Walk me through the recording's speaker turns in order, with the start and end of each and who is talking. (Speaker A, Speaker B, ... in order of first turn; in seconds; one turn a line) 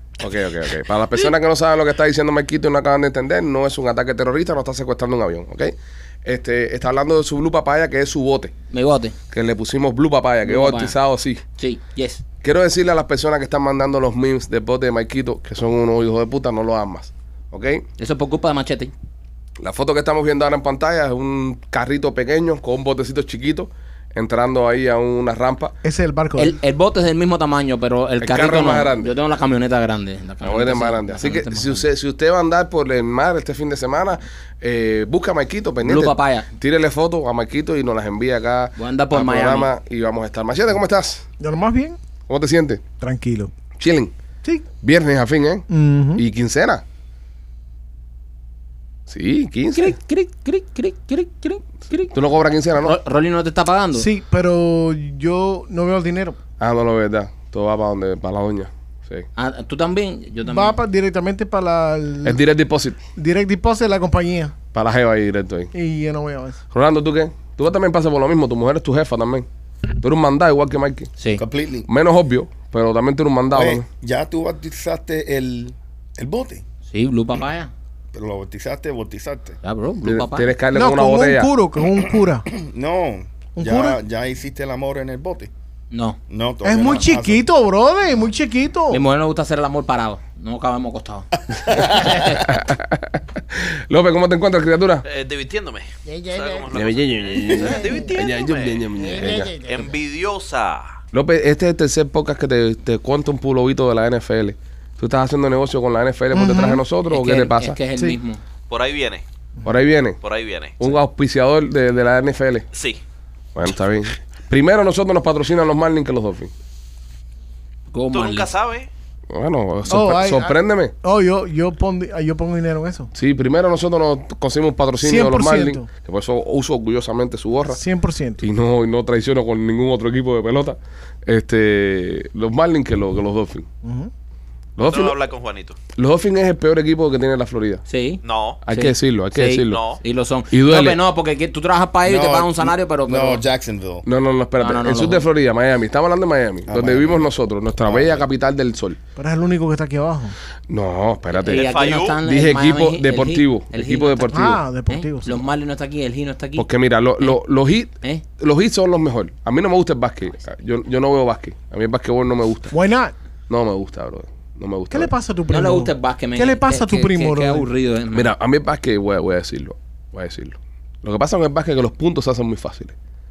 Speaker A: 0.2-5.7
Speaker A: 6.2-8.5
Speaker B: 8.7-9.1
Speaker A: 9.3-11.4
Speaker B: 10.4-10.9
Speaker B: 11.6-12.2
Speaker A: 12.4-17.8
Speaker B: 18.0-18.9
Speaker A: 19.6-25.7
Speaker C: 25.8-26.6
Speaker B: 26.4-31.8
Speaker A: 28.2-29.1
Speaker A: 30.4-41.2
Speaker B: 35.8-36.5
Speaker B: 38.8-39.7
Speaker C: 41.4-42.0
Speaker A: 42.3-42.8
Speaker C: 43.0-43.5
Speaker A: 43.8-44.1
Speaker A: 44.8-46.8
Speaker C: 45.7-46.2
Speaker A: 49.1-50.0
Speaker B: 49.8-52.1
Speaker A: 52.1-53.0
Speaker B: 52.8-54.1
Speaker C: 54.0-56.4
Speaker A: 56.6-59.2
Speaker B: 59.4-60.8
Speaker C: 60.5-62.4
Speaker A: 62.2-63.0
Speaker C: 63.1-64.5
Speaker A: 64.7-65.7
Speaker C: 65.7-66.6
Speaker A: 66.7-69.5
Speaker A: 70.0-71.1
Speaker D: 71.4-71.9
Speaker A: 71.9-73.8
Speaker D: 73.5-76.6
Speaker B: 76.9-77.7
Speaker D: 78.1-79.6
Speaker B: 79.6-80.5
Speaker A: 80.0-81.5
Speaker C: 80.7-82.5
Speaker D: 82.5-85.5
Speaker C: 83.6-84.0
Speaker B: 85.9-86.2
Speaker D: 86.3-87.5
Speaker C: 86.6-89.0
Speaker B: 88.9-92.4
Speaker A: 92.4-95.0
Speaker E: 95.0-100.9
Speaker C: 96.1-96.6
Speaker A: 96.7-99.5
Speaker C: 97.6-98.1
Speaker C: 99.0-99.9
Speaker A: 101.1-107.8
Speaker C: 106.3-106.8
Speaker B: 107.1-108.4
Speaker E: 108.7-109.2
Speaker A: 109.6-110.2
Speaker E: 110.2-110.8
Speaker A: 110.8-112.7
Speaker E: 112.7-113.0
Speaker A: 113.5-116.5
Speaker B: 117.9-118.5
Speaker E: 118.1-118.9
Speaker A: 119.3-120.9
Speaker C: 119.9-123.1
Speaker A: 123.1-127.8
Speaker C: 125.0-125.8
Speaker C: 127.7-128.4
Speaker A: 128.4-133.7
Speaker C: 133.8-134.1
Speaker A: 134.8-135.2
Speaker E: 134.9-135.8
Speaker A: 135.9-137.8
Speaker B: 137.9-143.4
Speaker E: 138.2-138.6
Speaker A: 138.6-139.8
Speaker E: 139.7-140.0
Speaker A: 140.5-141.0
Speaker D: 142.0-144.0
Speaker A: 144.0-149.0
Speaker B: 144.6-145.3
Speaker D: 146.7-148.3
Speaker C: 149.2-150.3
Speaker A: 150.7-154.6
Speaker B: 151.3-156.7
Speaker E: 151.5-152.2
Speaker C: 154.3-155.4
Speaker A: 156.6-162.7
Speaker C: 162.7-163.1
Speaker A: 163.5-165.1
Speaker C: 164.9-167.7
Speaker B: 165.5-168.3
Speaker A: 168.1-172.9